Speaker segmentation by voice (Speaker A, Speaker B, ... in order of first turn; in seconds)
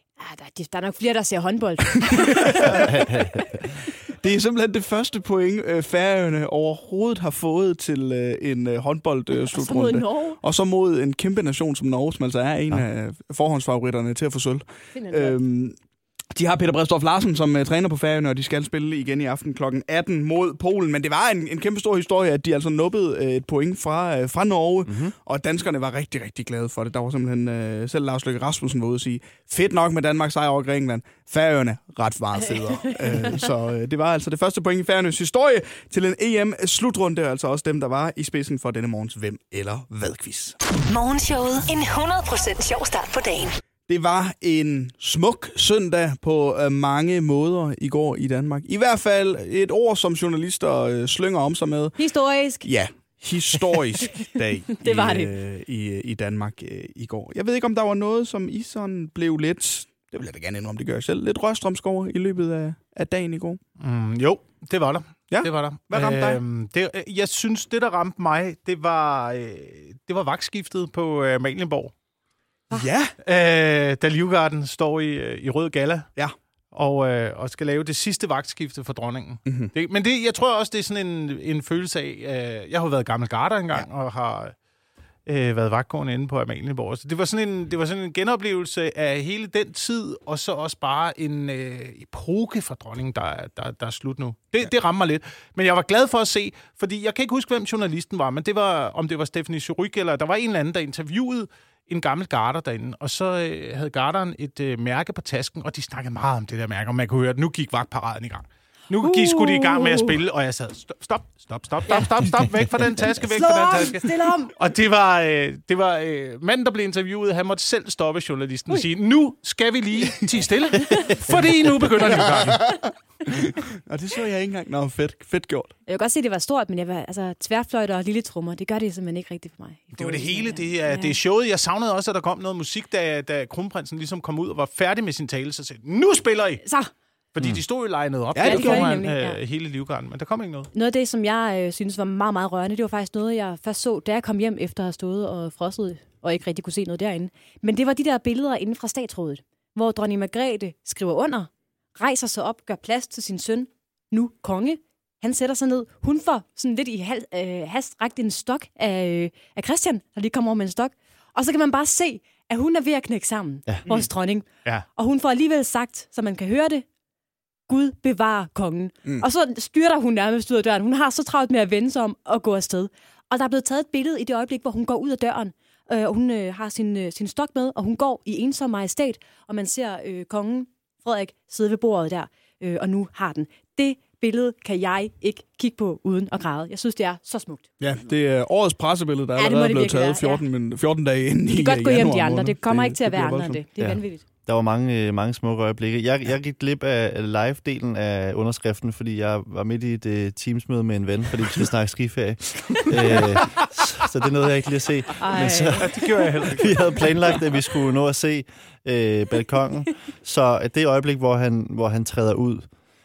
Speaker A: 0.2-3.1, 9.5-10.4, 14.9-15.4, 32.6-33.4, 52.0-52.7, 54.8-55.3, 109.0-110.2, 113.2-114.5, 125.9-131.2, 136.6-136.9, 138.4-139.4, 140.7-166.8, 167.7-187.7, 189.3-190.4, 191.5-194.2, 205.2-205.9
Speaker B: 2.0-2.8, 4.2-15.8, 16.3-40.5, 43.9-52.0, 52.6-63.6, 65.3-66.4, 72.7-73.1, 79.5-79.7, 122.5-122.8, 123.3-125.7, 138.3-139.0, 187.8-193.6
Speaker C: 2.9-3.4, 24.9-25.1, 193.8-205.9, 206.5-212.7
Speaker D: 40.9-43.6
Speaker E: 63.8-71.9, 73.2-76.1, 76.7-84.5, 85.2-122.7, 129.9-136.6, 137.3-140.7, 205.7-207.0